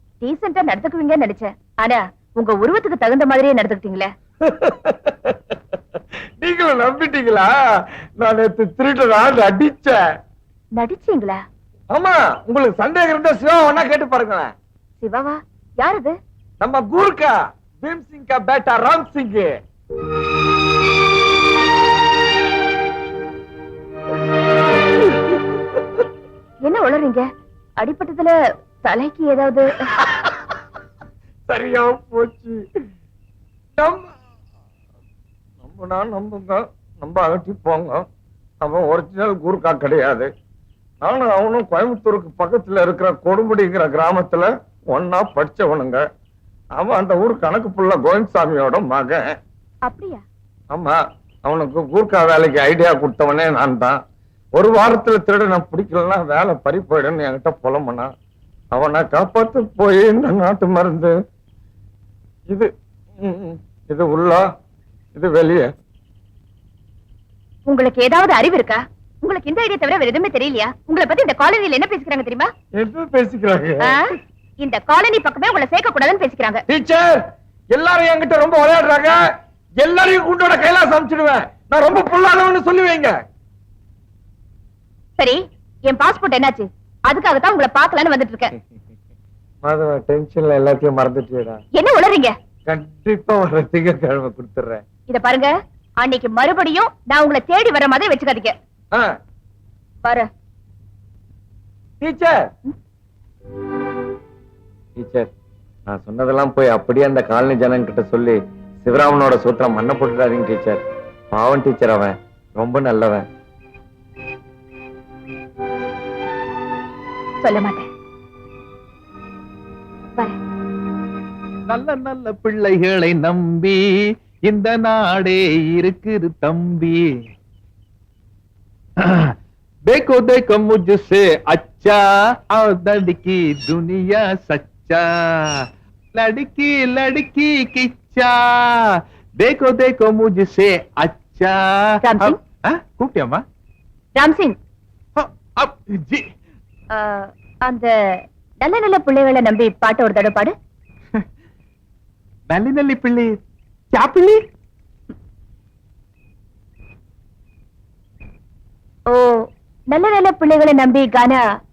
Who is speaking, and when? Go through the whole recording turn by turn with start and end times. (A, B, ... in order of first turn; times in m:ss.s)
0:00.2-0:04.1 A
0:04.4-0:05.3 B
0:06.4-0:07.5 B
0:08.2-0:10.0 B
0:10.8-0:11.4 A
0:11.9-0:14.5 B
0:15.0-0:16.2 A
0:16.6-0:19.5 B
0:26.7-0:27.3 A
0:27.8-0:29.8 A
0:31.5-0:32.6 B
0:33.8-0:34.0 B
0:35.6-0:38.1 B
0:38.6-0:40.3 B
0:41.0-0:46.0 B
0:46.8-0:49.2 B
0:49.9-0:50.2 A
0:50.7-0:54.0 B
0:54.6-0:58.1 B
0:58.7-1:01.1 B
1:03.2-1:04.4 B
1:05.2-1:05.7 B
1:07.7-1:12.5 A
1:12.8-1:14.0 B
1:14.6-1:16.6 A
1:16.7-1:17.2 B
1:17.7-1:19.2 B
1:19.8-1:23.1 B
1:25.2-1:28.5 A
1:29.6-1:31.6 B
1:31.8-1:32.3 A
1:32.7-1:34.8 B
1:35.1-1:38.6 A
1:42.0-1:42.4 B
1:45.0-1:45.3 B
1:45.9-1:53.2 B
1:57.4-1:57.8 A
2:01.7-2:03.8 C
2:04.4-2:07.1 C
2:09.0-2:09.4 C
2:09.9-2:12.0 C
2:12.5-2:15.5 C
2:16.1-2:23.4 C
2:22.0-2:22.4 A
2:24.2-2:24.6 A
2:25.2-2:26.3 C
2:26.9-2:30.5 A
2:32.5-2:33.4 C
2:33.9-2:34.4 C
2:39.1-2:41.4 A